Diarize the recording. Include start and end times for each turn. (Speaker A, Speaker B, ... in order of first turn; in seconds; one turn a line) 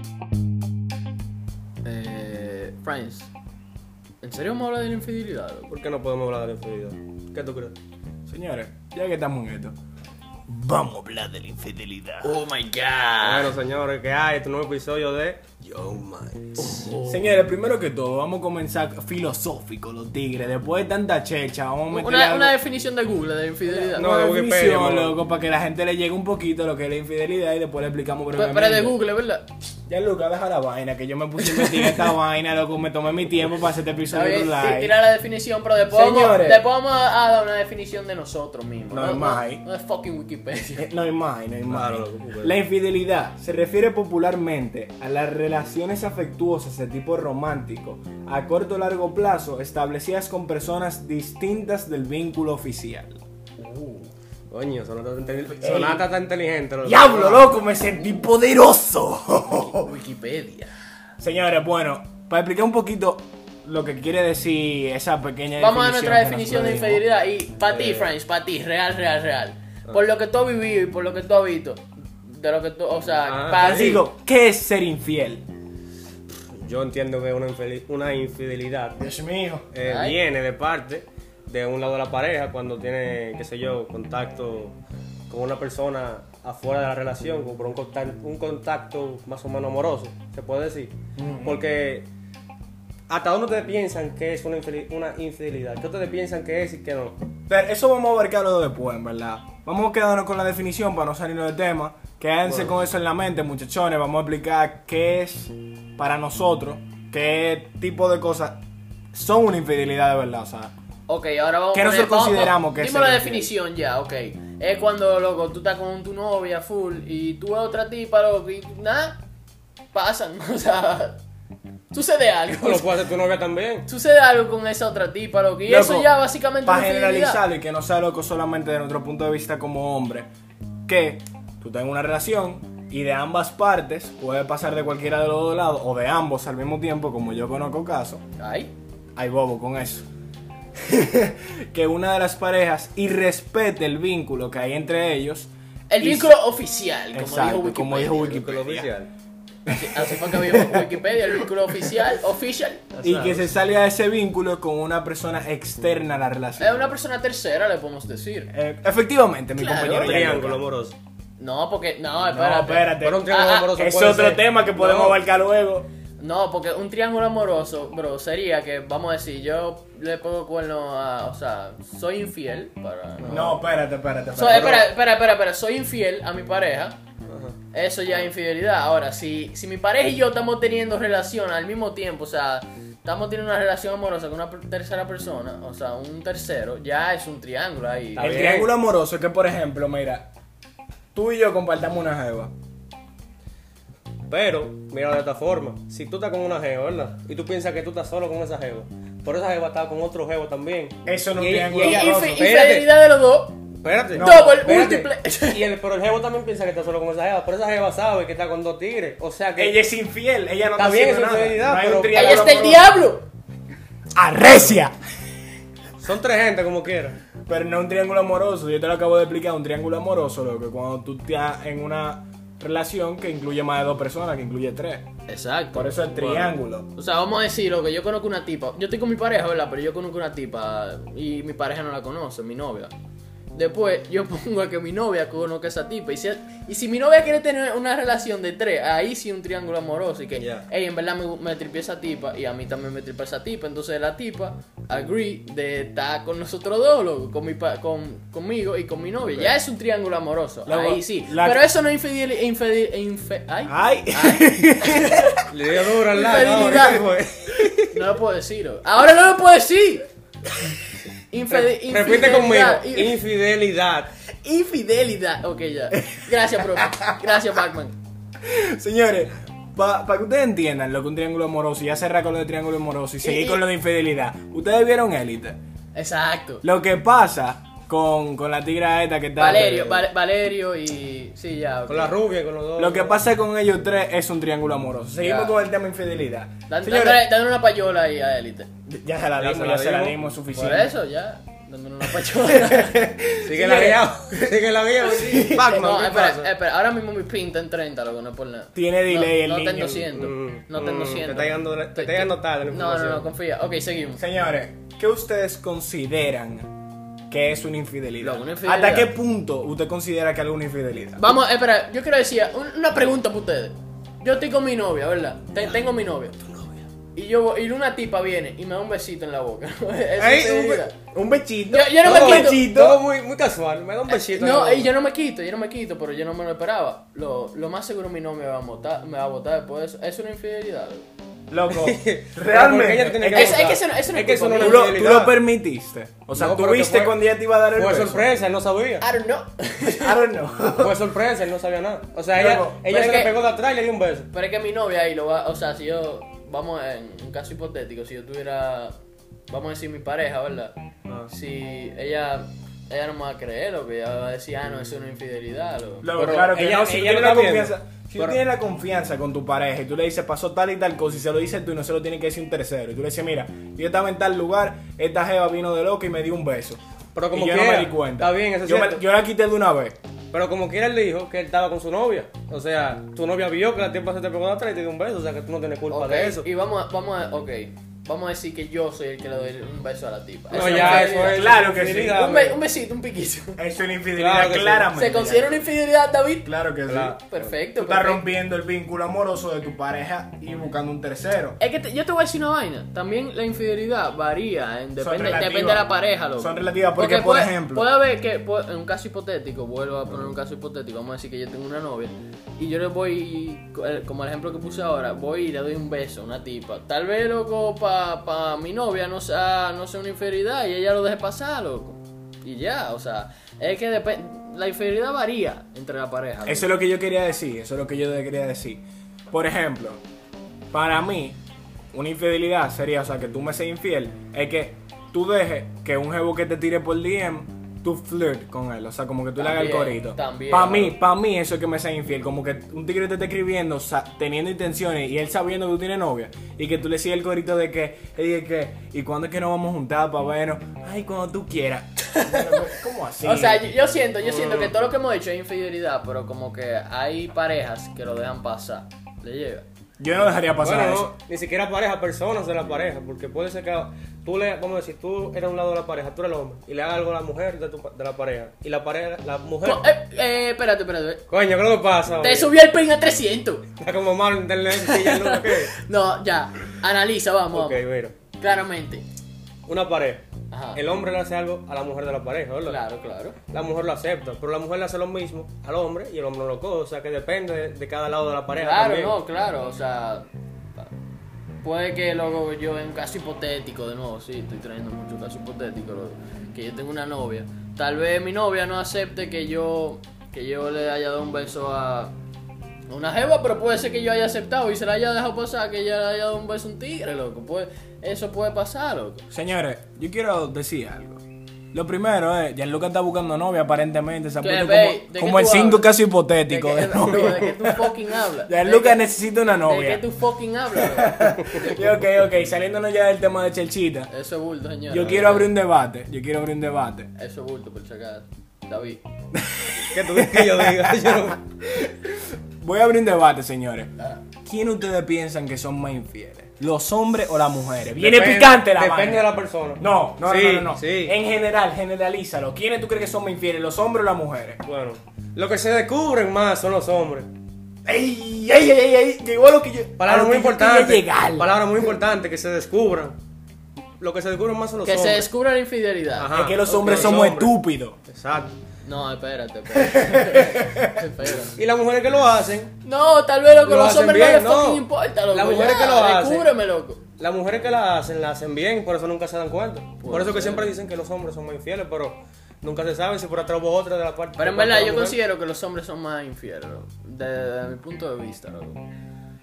Speaker A: 1.8-3.3
Speaker A: 4.2-5.7
Speaker B: 5.7-7.8
Speaker C: 8.3-9.8
Speaker C: 10.5-12.4
Speaker A: 12.2-13.5
Speaker B: 13.2-16.6
Speaker A: 16.6-17.3
Speaker C: 16.9-22.6
Speaker A: 21.9-24.1
Speaker C: 23.7-28.9
Speaker B: 23.9-25.2
Speaker A: 28.4-29.5
Speaker C: 29.9-35.0
Speaker A: 31.5-32.1
Speaker A: 34.1-40.9
Speaker C: 35.9-36.6
Speaker C: 38.9-39.6
Speaker C: 40.8-53.2
Speaker B: 41.7-42.5
Speaker A: 53.6-54.1
Speaker B: 54.5-57.3
Speaker C: 55.6-56.0
Speaker C: 56.8-59.9
Speaker A: 59.5-60.7
Speaker C: 61.2-67.0
Speaker A: 65.6-74.0
Speaker B: 67.7-68.1
Speaker B: 73.3-74.0
Speaker C: 73.5-75.5
Speaker B: 76.5-79.0
Speaker C: 79.0-79.7
Speaker B: 79.7-84.8
Speaker A: 79.9-80.2
Speaker B: 85.3-92.1
Speaker C: 91.2-91.6
Speaker B: 93.1-97.2
Speaker C: 97.5-108.6
Speaker B: 102.5-102.7
Speaker C: 109.1-110.7
Speaker A: 111.1-119.2
Speaker C: 111.7-113.5
Speaker A: 119.9-121.2
Speaker A: 121.9-122.9
Speaker B: 122.6-123.9
Speaker A: 123.9-127.4
Speaker C: 125.7-126.1
Speaker C: 126.6-130.3
Speaker C: 130.9-138.2
Speaker A: 138.4-138.7
Speaker C: 139.2-140.1
Speaker C: 140.8-146.3
Speaker A: 145.9-148.4
Speaker C: 147.1-148.9
Speaker B: 148.3-149.1
Speaker C: 149.7-151.4
Speaker A: 149.7-153.5
Speaker C: 153.0-156.8
Speaker A: 156.6-158.5
Speaker C: 158.5-160.6
Speaker A: 159.6-160.2
Speaker B: 159.9-160.9
Speaker A: 161.4-163.8
Speaker C: 162.3-165.9
Speaker B: 163.0-165.2
Speaker A: 166.2-173.6
Speaker C: 173.3-174.9
Speaker A: 174.3-177.0
Speaker B: 177.3-177.6
Speaker A: 177.7-188.4
Speaker B: 188.2-188.7
Speaker C: 188.2-190.3
Speaker C: 191.1-192.5
Speaker B: 194.3-202.9
Speaker C: 201.0-202.4
Speaker A: 201.8-203.6
Speaker B: 203.8-209.8
Speaker C: 204.1-204.6
Speaker A: 204.2-205.6
Speaker C: 209.6-212.9
Speaker B: 210.7-212.5
Speaker A: 212.1-213.2
Speaker C: 214.1-214.9
Speaker B: 216.0-217.2
Speaker C: 217.4-225.1
Speaker A: 225.3-226.0
Speaker C: 225.7-226.9
Speaker B: 226.1-226.6
Speaker A: 226.9-232.9
Speaker A: 233.5-255.4
Speaker B: 240.4-240.7
Speaker C: 250.7-251.6
Speaker C: 253.7-255.3
Speaker B: 255.5-258.0
Speaker A: 256.1-257.0
Speaker A: 257.9-260.1
Speaker A: 261.3-263.2
Speaker B: 261.5-264.1
Speaker A: 264.4-267.9
Speaker C: 266.1-267.0
Speaker C: 268.4-275.6
Speaker A: 273.2-273.6
Speaker A: 275.9-276.6
Speaker C: 276.6-279.9
Speaker A: 279.4-282.1
Speaker B: 279.5-280.0
Speaker B: 281.9-283.2
Speaker C: 282.8-287.2
Speaker A: 285.2-285.6
Speaker A: 286.7-288.7
Speaker C: 288.9-290.9
Speaker B: 289.4-290.2
Speaker A: 290.5-293.1
Speaker C: 292.3-296.0
Speaker B: 293.4-296.5
Speaker A: 295.6-304.2
Speaker C: 298.8-300.1
Speaker B: 300.1-303.2
Speaker C: 304.2-306.7
Speaker C: 307.3-311.4
Speaker A: 308.2-309.1
Speaker A: 311.2-316.4
Speaker A: 317.1-320.9
Speaker B: 320.2-320.8
Speaker C: 320.9-323.0
Speaker A: 321.7-322.6
Speaker B: 322.0-324.9
Speaker A: 324.1-331.0
Speaker C: 331.5-333.8
Speaker B: 331.7-335.4
Speaker A: 333.3-334.9
Speaker C: 334.6-338.2
Speaker B: 336.3-337.2
Speaker B: 337.7-339.0
Speaker A: 339.0-340.2
Speaker C: 339.8-341.0
Speaker B: 340.8-344.3
Speaker C: 342.3-342.8
Speaker A: 342.9-343.3
Speaker A: 344.3-348.9
Speaker A: 349.5-350.8
Speaker A: 351.3-356.2
Speaker C: 356.0-369.9
Speaker B: 356.1-358.4
Speaker B: 367.1-369.0
Speaker B: 370.3-376.5
Speaker A: 375.9-383.6
Speaker B: 380.5-382.6
Speaker C: 380.5-382.3
Speaker C: 383.6-385.6
Speaker B: 384.1-384.9
Speaker A: 384.9-386.5
Speaker C: 386.4-387.2
Speaker B: 386.9-387.2
Speaker A: 387.3-388.2
Speaker C: 387.8-391.6
Speaker A: 391.6-416.7
Speaker C: 395.0-397.9
Speaker C: 416.4-420.0
Speaker C: 420.7-421.4
Speaker C: 421.9-443.6
Speaker A: 429.4-431.0
Speaker A: 442.1-442.7
Speaker A: 443.2-449.6
Speaker B: 444.2-444.7
Speaker C: 450.0-451.1
Speaker B: 450.6-459.9
Speaker A: 459.6-461.2
Speaker B: 461.3-462.5
Speaker A: 462.2-463.6
Speaker B: 463.8-465.7
Speaker A: 464.7-467.8
Speaker B: 467.5-468.1
Speaker A: 468.4-469.0
Speaker B: 469.6-472.8
Speaker A: 470.5-470.8
Speaker A: 472.6-473.4
Speaker B: 473.5-479.2
Speaker A: 478.5-480.3
Speaker A: 481.6-492.1
Speaker A: 492.9-499.2
Speaker C: 499.3-501.2
Speaker C: 501.7-510.1
Speaker A: 504.4-505.9
Speaker A: 506.4-511.9
Speaker C: 510.8-514.1
Speaker A: 514.1-515.5
Speaker C: 514.9-517.1
Speaker A: 517.2-519.0
Speaker C: 519.3-523.9
Speaker B: 519.9-521.4
Speaker C: 524.4-534.6
Speaker B: 528.0-531.1
Speaker B: 534.6-537.3
Speaker C: 537.9-541.5
Speaker B: 540.0-543.2
Speaker B: 544.0-545.3
Speaker A: 544.9-547.2
Speaker B: 546.2-547.5
Speaker C: 546.3-548.0
Speaker B: 548.1-548.5
Speaker A: 548.9-551.5
Speaker C: 549.8-550.8
Speaker B: 551.5-552.7
Speaker A: 552.8-557.0
Speaker B: 553.6-556.5
Speaker B: 557.2-565.2
Speaker A: 560.0-560.7
Speaker A: 564.4-568.8